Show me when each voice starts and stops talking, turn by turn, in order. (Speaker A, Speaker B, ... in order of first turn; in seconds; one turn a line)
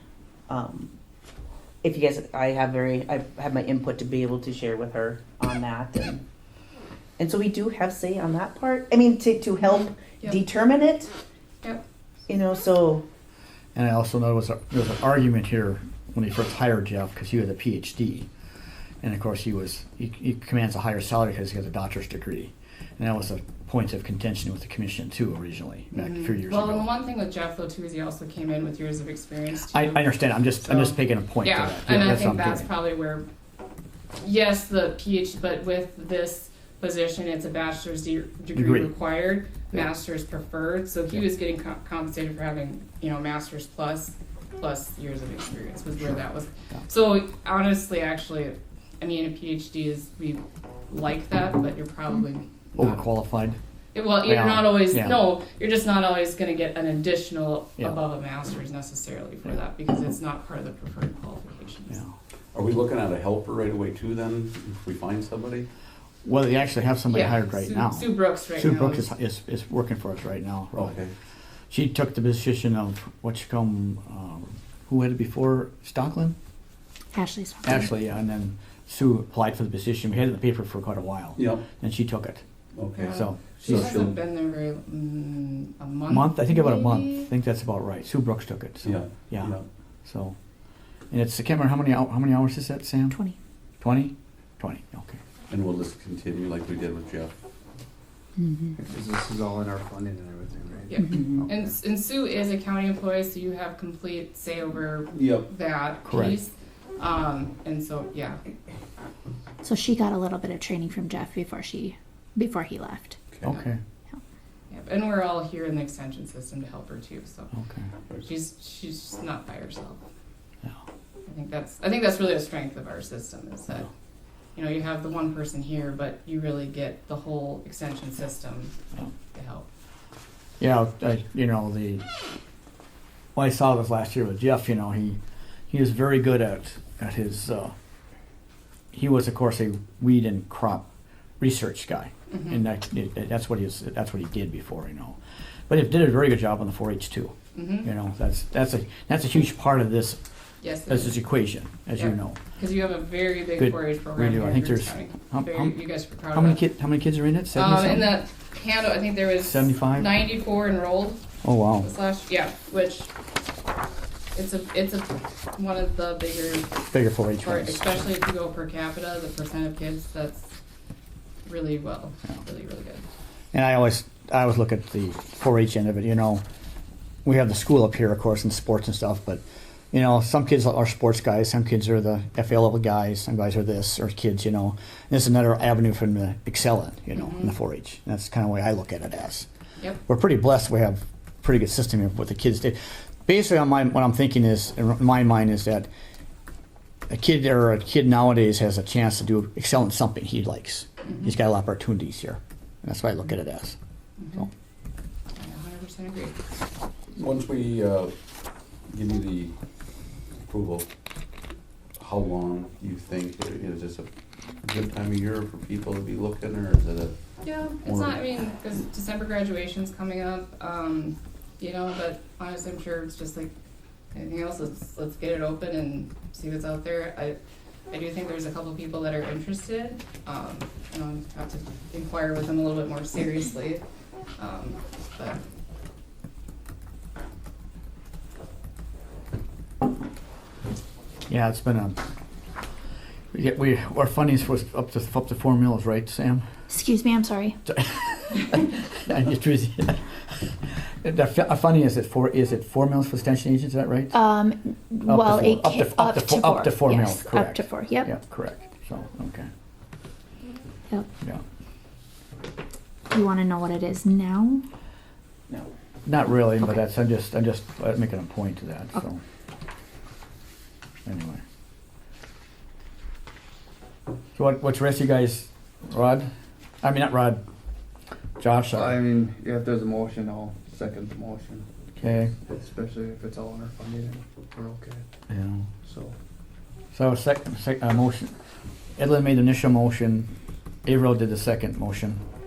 Speaker A: 0.5-0.9
Speaker A: 1.8-6.2
Speaker A: 7.2-11.1
Speaker A: 12.3-13.0
Speaker B: 13.7-18.3
Speaker B: 19.0-26.9
Speaker C: 25.9-33.2
Speaker B: 29.7-32.7
Speaker C: 34.2-53.0
Speaker B: 38.5-38.9
Speaker B: 52.8-53.6
Speaker C: 53.9-62.0
Speaker B: 54.2-55.2
Speaker D: 62.5-65.7
Speaker B: 66.2-71.0
Speaker C: 67.1-69.1
Speaker D: 70.7-71.1
Speaker B: 71.7-76.3
Speaker E: 77.1-77.9
Speaker B: 77.6-82.4
Speaker D: 81.4-81.7
Speaker D: 82.8-84.2
Speaker C: 82.9-87.3
Speaker B: 83.1-83.9
Speaker B: 86.1-90.3
Speaker D: 88.8-89.7
Speaker B: 91.1-93.2
Speaker E: 93.1-93.4
Speaker B: 93.8-95.2
Speaker D: 95.5-97.3
Speaker E: 98.4-98.7
Speaker F: 98.7-101.6
Speaker C: 100.9-108.4
Speaker D: 105.1-105.5
Speaker B: 106.0-106.4
Speaker E: 109.6-113.2
Speaker B: 113.4-113.8
Speaker C: 114.7-117.5
Speaker B: 117.5-117.9
Speaker C: 118.2-120.0
Speaker C: 121.2-123.9
Speaker C: 124.5-128.7
Speaker C: 129.3-129.7
Speaker B: 130.6-132.1
Speaker B: 133.3-135.2
Speaker B: 135.7-137.7
Speaker B: 138.9-140.9
Speaker B: 141.4-145.2
Speaker C: 142.3-142.6
Speaker B: 145.7-150.2
Speaker C: 147.5-147.9
Speaker C: 150.6-151.2
Speaker B: 150.9-152.4
Speaker C: 152.0-156.6
Speaker B: 153.6-155.8
Speaker B: 156.3-158.1
Speaker C: 157.5-161.2
Speaker B: 159.4-160.1
Speaker B: 161.4-161.9
Speaker C: 161.8-163.1
Speaker C: 164.3-166.8
Speaker B: 166.9-168.0
Speaker C: 167.4-170.5
Speaker C: 171.4-173.0
Speaker B: 173.5-176.4
Speaker B: 177.2-189.4
Speaker C: 187.1-187.5
Speaker B: 190.1-195.9
Speaker B: 197.1-203.8
Speaker C: 201.1-201.3
Speaker C: 204.2-204.5
Speaker C: 205.3-206.4
Speaker D: 207.1-208.1
Speaker D: 208.9-209.5
Speaker D: 210.5-210.9
Speaker D: 212.0-214.1
Speaker D: 214.6-217.1
Speaker C: 217.4-223.5
Speaker D: 217.8-218.2
Speaker C: 224.1-227.4
Speaker C: 227.9-233.8
Speaker C: 234.4-235.4
Speaker B: 241.3-242.0
Speaker B: 243.3-246.4
Speaker E: 246.7-247.6
Speaker B: 247.7-250.1
Speaker B: 250.9-254.2
Speaker E: 254.1-258.1
Speaker B: 255.1-259.5
Speaker E: 263.1-264.6
Speaker B: 266.1-269.2
Speaker B: 271.0-271.4
Speaker B: 274.4-276.3
Speaker B: 276.8-277.4
Speaker B: 278.4-278.9
Speaker F: 278.7-281.6
Speaker B: 282.0-282.3
Speaker F: 282.4-285.0
Speaker B: 285.3-285.7
Speaker F: 285.8-286.1
Speaker B: 286.9-288.3
Speaker B: 289.0-290.3
Speaker B: 290.9-292.2